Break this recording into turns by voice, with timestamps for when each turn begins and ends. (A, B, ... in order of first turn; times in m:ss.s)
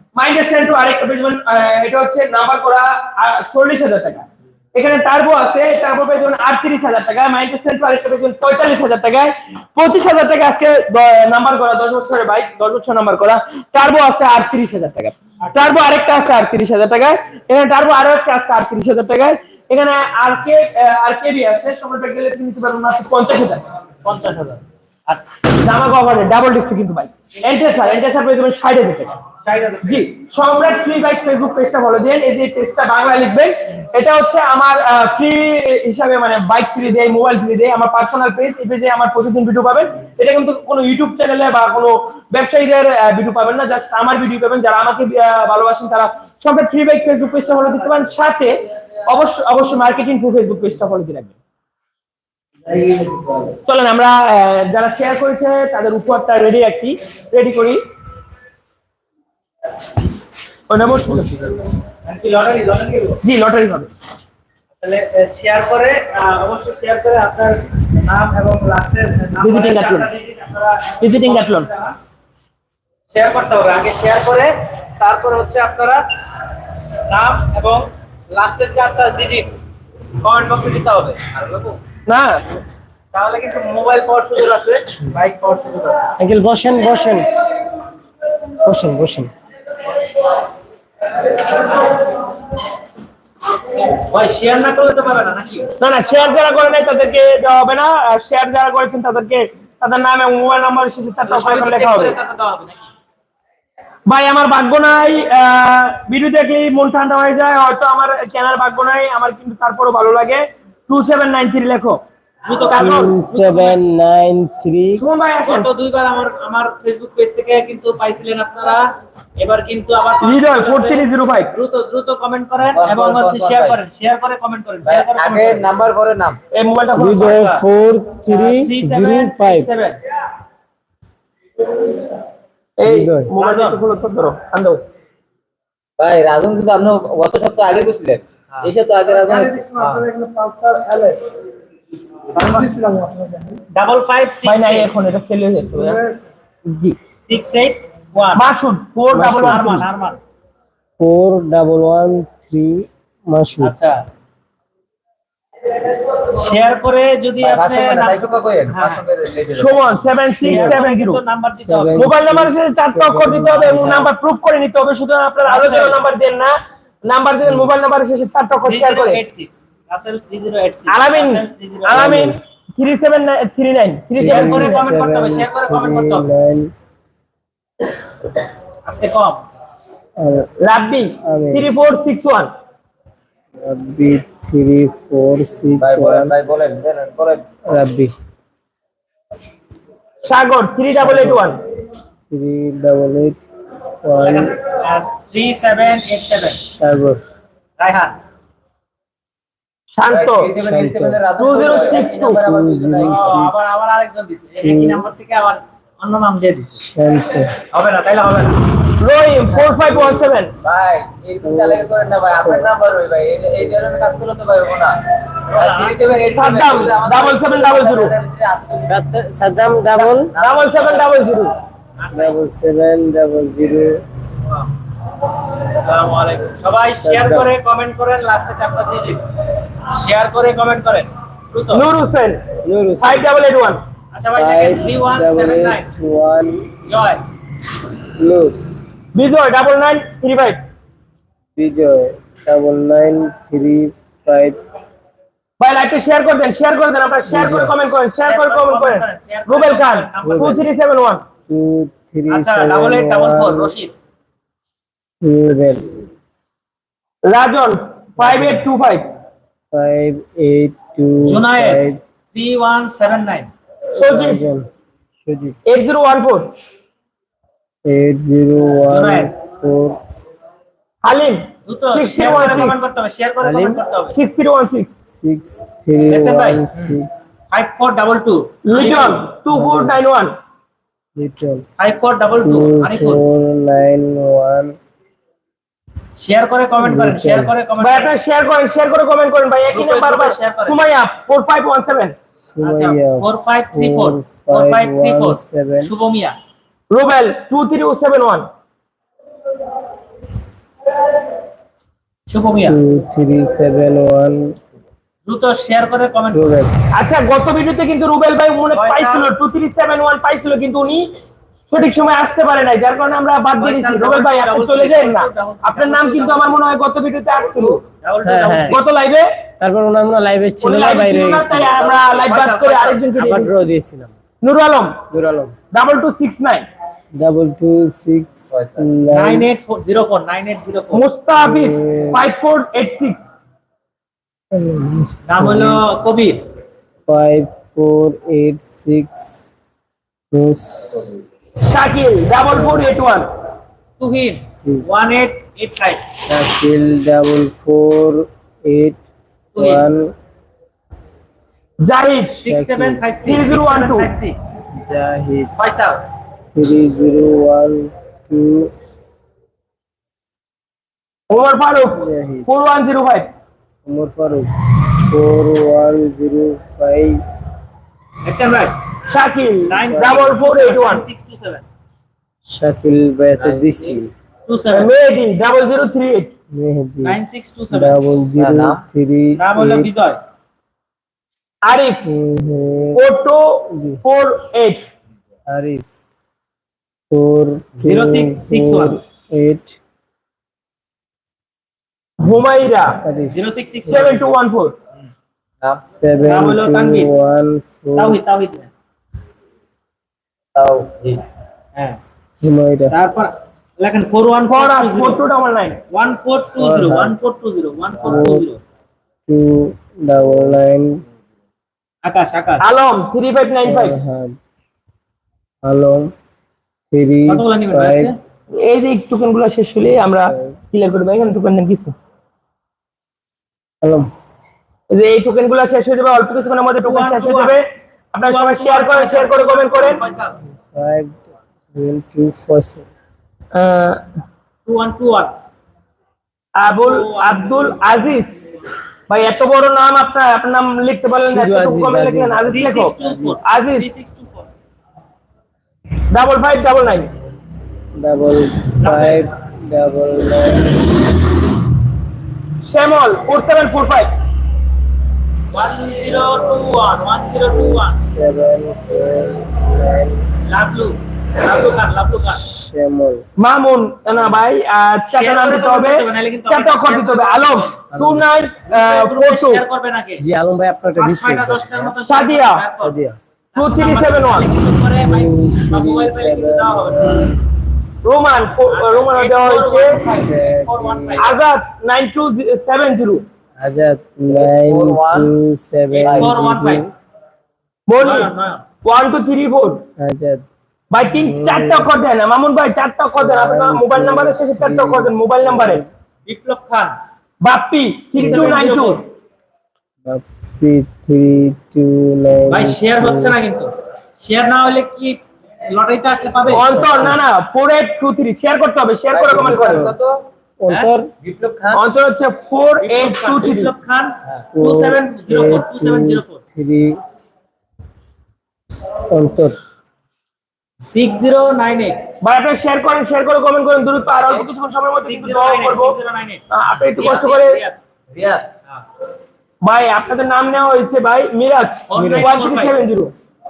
0:00.2-0:23.6 A
0:24.0-0:25.2 B
0:25.6-0:29.2 A
0:29.4-0:30.0 B
0:29.8-0:51.3 A
0:52.8-0:53.3 C
0:53.7-0:57.8 A
1:00.7-1:01.6 A
1:02.0-1:03.2 B
1:03.2-1:03.9 A
1:04.8-1:11.9 B
1:09.4-1:10.1 A
1:11.0-1:11.7 A
1:13.1-1:16.0 B
1:17.1-1:19.6 B
1:20.2-1:21.8 B
1:22.1-1:22.4 A
1:23.1-1:26.0 B
1:26.2-1:27.3 C
1:28.6-1:29.3 C
1:33.9-1:35.7 B
1:35.8-1:42.2 A
1:41.2-1:42.9 B
1:44.1-1:52.0 A
1:52.5-1:53.8 B
1:52.7-1:55.0 C
1:52.7-1:53.1 A
1:55.0-1:55.7 A
1:55.5-2:05.7 B
2:00.2-2:01.5 A
2:02.7-2:03.8 D
2:04.8-2:06.4 D
2:06.5-2:07.4 A
2:07.0-2:09.7 C
2:07.2-2:07.6 B
2:08.2-2:10.0 B
2:12.8-2:14.8 A
2:12.9-2:13.3 C
2:13.4-2:13.8 B
2:16.0-2:20.0 D
2:19.8-2:20.1 B
2:22.4-2:23.1 B
2:23.7-2:24.9 B
2:24.4-2:26.0 A
2:26.7-2:27.0 A
2:27.3-2:28.5 B
2:28.4-2:29.9 A
2:29.1-2:29.6 C
2:29.2-2:30.2 B
2:31.0-2:33.8 C
2:33.6-2:34.0 B
2:36.1-2:39.0 B
2:37.4-2:39.9 D
2:39.6-2:41.2 A
2:40.4-2:42.2 B
2:40.4-2:40.8 C
2:41.6-2:44.1 C
2:42.0-2:46.6 A
2:45.4-2:46.0 B
2:47.1-2:49.2 A
2:48.6-2:52.2 B
2:50.9-2:54.8 A
2:51.9-2:52.4 C
2:54.1-2:56.7 C
2:54.2-2:56.3 B
2:58.8-2:59.4 B
3:00.2-3:00.5 C
3:00.6-3:02.5 A
3:01.2-3:01.7 C
3:03.6-3:06.4 C
3:05.8-3:07.5 D
3:07.7-3:08.1 C
3:10.2-3:11.6 A
3:11.0-3:11.5 C
3:12.3-3:13.4 C
3:14.0-3:14.6 C
3:14.2-3:16.6 B
3:16.8-3:17.2 C
3:17.8-3:18.2 B
3:19.9-3:20.5 A
3:20.1-3:23.4 D
3:20.6-3:21.2 C
3:21.4-3:22.4 A
3:22.4-3:23.8 C
3:23.0-3:26.8 B
3:24.6-3:25.1 C
3:26.8-3:27.6 C
3:27.7-3:28.6 B
3:29.0-3:30.5 A
3:29.6-3:30.2 C
3:30.6-3:35.0 D
3:31.4-3:31.9 C
3:32.4-3:32.7 C
3:35.5-3:36.2 B
3:35.6-3:39.0 D
3:36.3-3:38.1 A
3:38.9-3:40.3 C
3:40.0-3:41.2 D
3:40.4-3:41.6 A
3:42.0-3:42.3 B
3:42.1-3:44.0 C
3:45.5-3:49.3 B
3:47.0-3:47.5 C
3:49.9-3:51.9 B
3:51.7-3:52.4 A
3:52.6-3:53.4 C
3:53.0-3:53.8 A
3:54.1-3:55.9 B
3:54.3-3:56.8 C
3:56.9-3:57.2 B
3:58.2-3:58.6 C
3:59.1-4:00.6 A
4:01.6-4:04.6 C
4:05.6-4:11.2 A
4:07.3-4:07.8 C
4:08.2-4:10.6 B
4:10.2-4:10.7 C
4:11.5-4:13.7 C
4:12.3-4:13.9 B
4:15.2-4:16.1 C
4:17.3-4:19.1 A
4:18.2-4:18.6 C
4:19.7-4:22.0 C
4:21.2-4:23.5 B
4:24.0-4:24.4 A
4:24.0-4:24.7 C
4:25.2-4:25.6 C
4:25.7-4:26.5 A
4:27.8-4:30.0 C
4:28.8-4:29.3 B
4:31.0-4:32.8 A
4:31.7-4:34.2 B
4:33.4-4:33.8 C
4:34.1-4:34.9 A
4:35.1-4:37.2 C
4:36.1-4:37.0 B
4:37.5-4:39.2 B
4:38.6-4:40.3 A
4:39.5-4:40.0 C
4:41.2-4:41.7 C
4:41.8-4:43.2 B
4:42.4-4:44.8 C
4:46.2-4:48.1 B
4:46.8-4:47.5 C
4:47.8-4:52.2 A
4:49.7-4:50.8 B
4:52.5-4:55.9 C
4:52.6-4:56.4 B
4:56.9-4:58.5 A
5:02.3-5:02.8 B
5:02.6-5:04.6 C
5:05.3-5:06.6 B
5:06.3-5:06.7 C
5:06.9-5:11.1 A
5:08.7-5:09.3 B
5:11.7-5:17.8 A
5:13.6-5:16.6 B
5:17.4-5:17.8 D
5:18.0-5:18.8 B
5:18.2-5:18.8 C
5:18.7-5:19.3 A
5:19.6-5:21.8 C
5:20.6-5:23.6 A
5:21.6-5:23.0 B
5:23.2-5:24.2 C
5:24.4-5:25.0 A
5:25.1-5:25.5 C
5:25.7-5:26.6 A
5:27.2-5:29.5 C
5:28.5-5:28.9 D
5:29.1-5:31.0 B
5:30.9-5:33.2 A
5:31.4-5:32.2 C
5:34.5-5:36.0 C
5:35.3-5:36.4 B
5:37.1-5:39.5 C
5:40.3-5:41.2 C
5:41.7-5:43.3 A
5:42.5-5:42.9 C
5:44.0-5:46.0 B
5:44.6-5:44.9 C
5:46.3-5:49.0 C
5:49.5-5:49.8 B
5:49.6-5:50.1 C
5:51.8-5:52.4 A
5:52.4-5:54.4 B
5:52.4-5:53.0 C
5:53.2-5:54.1 A
5:54.7-5:55.5 C
5:55.6-5:56.0 B
5:56.5-5:58.7 C
6:01.3-6:03.3 A
6:02.0-6:02.5 C
6:03.8-6:07.2 C
6:08.2-6:08.8 B
6:09.1-6:11.0 A
6:09.7-6:11.6 B
6:09.8-6:10.4 C
6:12.5-6:14.1 C
6:13.4-6:14.0 D
6:14.5-6:14.9 B
6:14.7-6:16.3 A
6:16.5-6:17.2 C
6:17.0-6:18.0 B
6:17.7-6:19.9 C
6:18.4-6:18.8 D
6:19.4-6:20.2 B
6:21.6-6:22.1 A
6:22.0-6:23.0 C
6:23.0-6:24.8 A
6:23.7-6:24.0 C
6:25.5-6:25.9 C
6:27.1-6:29.8 C
6:27.8-6:29.0 B
6:32.2-6:33.0 A
6:33.0-6:34.3 C
6:33.3-6:34.2 B
6:33.9-6:34.8 A
6:36.0-6:38.2 C
6:36.2-6:37.1 B
6:38.0-6:38.7 B
6:40.6-6:41.2 D
6:42.4-6:43.0 C
6:42.9-6:45.2 B
6:44.5-6:45.8 A
6:45.9-6:48.6 B
6:46.6-6:47.2 C
6:48.0-6:48.5 C
6:49.3-6:51.0 C
6:52.0-6:52.6 B
6:52.6-6:54.0 A
6:53.6-6:54.4 C
6:55.6-6:56.1 C
6:56.9-6:58.1 C
6:57.3-6:58.2 B
6:58.6-7:01.9 A
7:00.3-7:00.6 C
7:03.8-7:04.1 C
7:04.9-7:10.0 A
7:06.8-7:07.6 B
7:08.3-7:10.4 B
7:10.6-7:12.9 C
7:13.5-7:14.0 A
7:14.7-7:15.3 B
7:16.6-7:18.4 A
7:16.8-7:17.8 B
7:19.1-7:22.9 A
7:21.2-7:23.4 C
7:22.5-7:24.5 B
7:23.4-7:24.0 A
7:26.1-7:27.1 A
7:28.0-7:30.9 C
7:28.8-7:29.3 B
7:32.6-7:34.1 A
7:35.5-7:38.0 B
7:37.5-7:40.3 C
7:40.5-7:42.4 B
7:42.3-7:43.3 C
7:43.4-7:49.6 A
7:45.1-7:47.8 B
7:47.9-7:48.3 C
7:48.7-7:50.2 B
7:50.2-7:51.9 C
7:51.0-7:53.0 B
7:52.1-7:52.6 A
7:52.8-7:53.2 C
7:53.5-7:57.2 B
7:53.6-7:54.5 A
7:55.0-7:57.4 C
7:58.0-8:00.0 A
7:58.7-8:01.4 B
8:00.2-8:01.3 C
8:01.2-8:03.2 A
8:03.6-8:06.9 C
8:04.3-8:05.3 D
8:05.9-8:06.9 B
8:06.0-8:06.3 D
8:07.9-8:08.3 A
8:08.0-8:08.6 B
8:08.8-8:09.8 A
8:10.0-8:10.5 C
8:10.9-8:15.8 A
8:11.1-8:11.9 C
8:13.2-8:15.9 C
8:16.3-8:17.0 B
8:17.4-8:19.0 A
8:18.2-8:18.6 C
8:18.2-8:19.0 B
8:20.0-8:23.4 C
8:22.5-8:26.7 B
8:26.5-8:29.9 A
8:26.5-8:27.2 C
8:29.1-8:30.2 D
8:29.3-8:30.0 C
8:30.6-8:31.1 C
8:31.2-8:31.8 D
8:31.7-8:33.7 A
8:32.8-8:36.4 B
8:34.5-8:37.0 C
8:39.1-8:39.6 C
8:40.8-8:42.0 B
8:42.2-8:46.0 A
8:44.2-8:44.5 D
8:45.0-8:47.8 B
8:46.5-8:47.6 A
8:48.1-8:48.5 D
8:49.6-8:53.1 A
8:51.9-8:52.8 B
8:51.9-8:52.4 C